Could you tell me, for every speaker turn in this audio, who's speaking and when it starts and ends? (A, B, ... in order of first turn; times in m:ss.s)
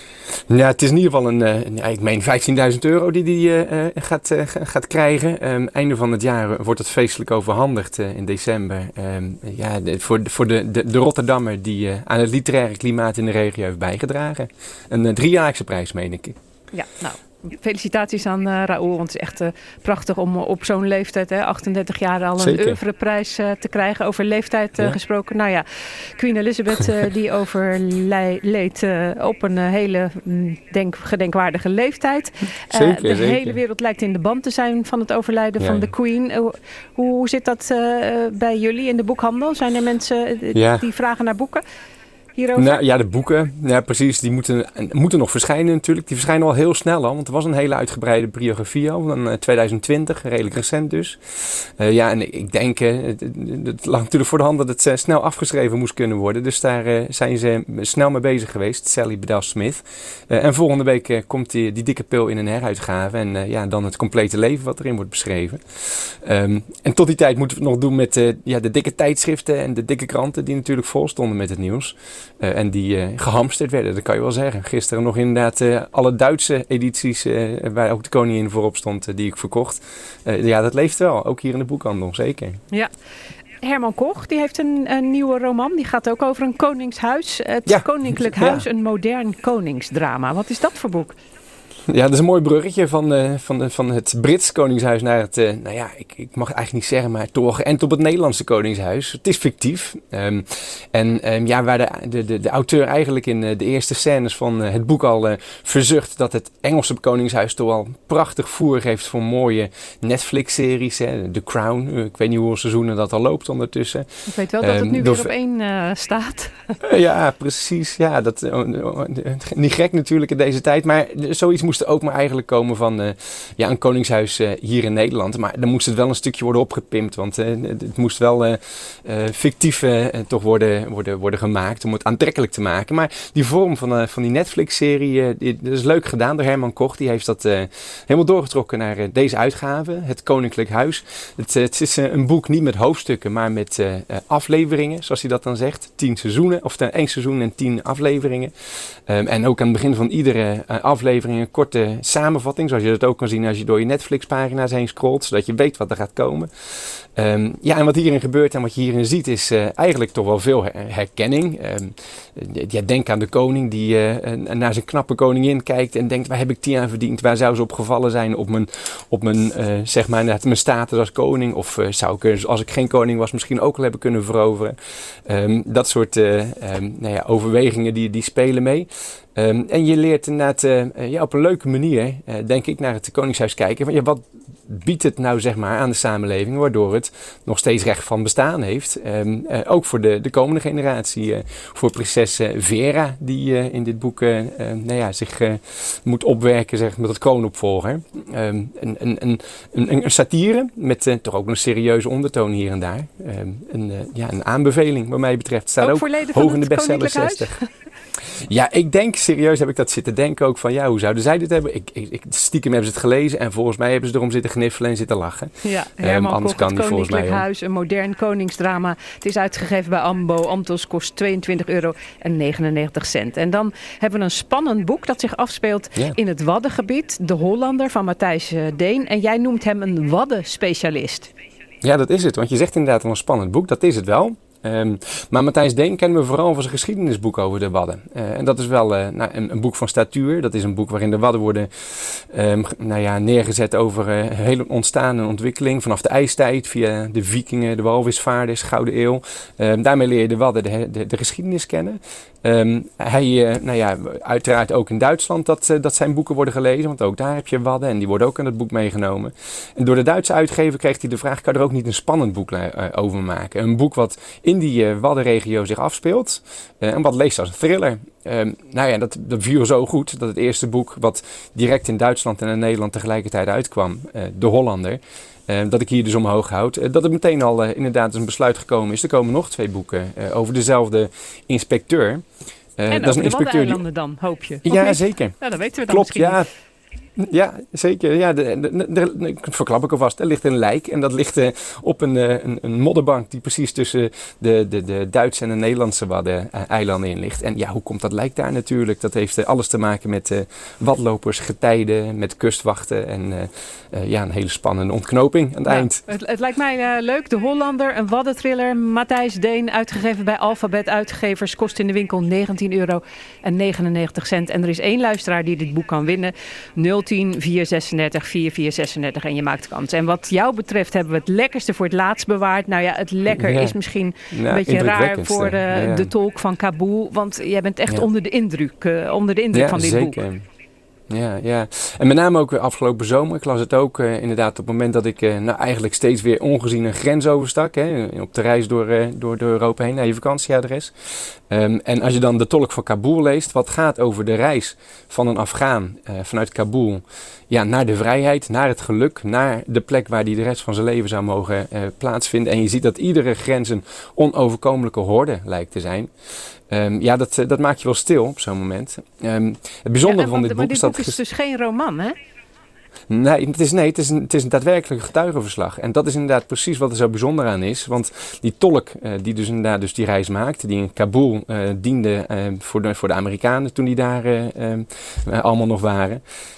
0:00.5-0:16.3 A
0:16.7-0:25.6 B
0:22.4-0:22.8 A
0:26.2-0:41.6 B
0:32.7-0:33.6 A
0:35.6-0:35.9 A
0:40.5-0:40.8 A
0:42.4-0:42.8 B
0:42.6-0:51.2 A
0:51.8-1:05.6 A
1:06.2-1:22.6 A
1:23.6-1:31.2 B
1:27.6-1:28.6 A
1:31.9-1:54.1 A
1:54.3-1:56.8 B
1:54.6-1:55.3 A
1:56.8-2:28.5 A
2:29.1-2:36.5 A
2:37.2-2:54.7 A
2:55.3-3:27.6 A
3:25.8-3:27.6 B
3:28.5-3:37.4 A
3:35.6-3:51.3 B
3:51.8-4:01.7 A
4:02.3-4:42.2 A
4:42.8-4:43.8 A
4:42.9-4:46.4 B
4:44.6-4:45.4 A
4:45.9-4:46.5 A
4:47.2-5:06.0 A
5:05.6-5:30.2 B
5:23.3-5:23.8 A
5:24.3-5:26.1 A
5:29.5-5:30.4 A
5:31.1-5:40.9 A
5:41.5-5:56.1 A
5:56.7-6:01.2 A
6:00.0-6:02.2 B
6:03.1-6:16.2 A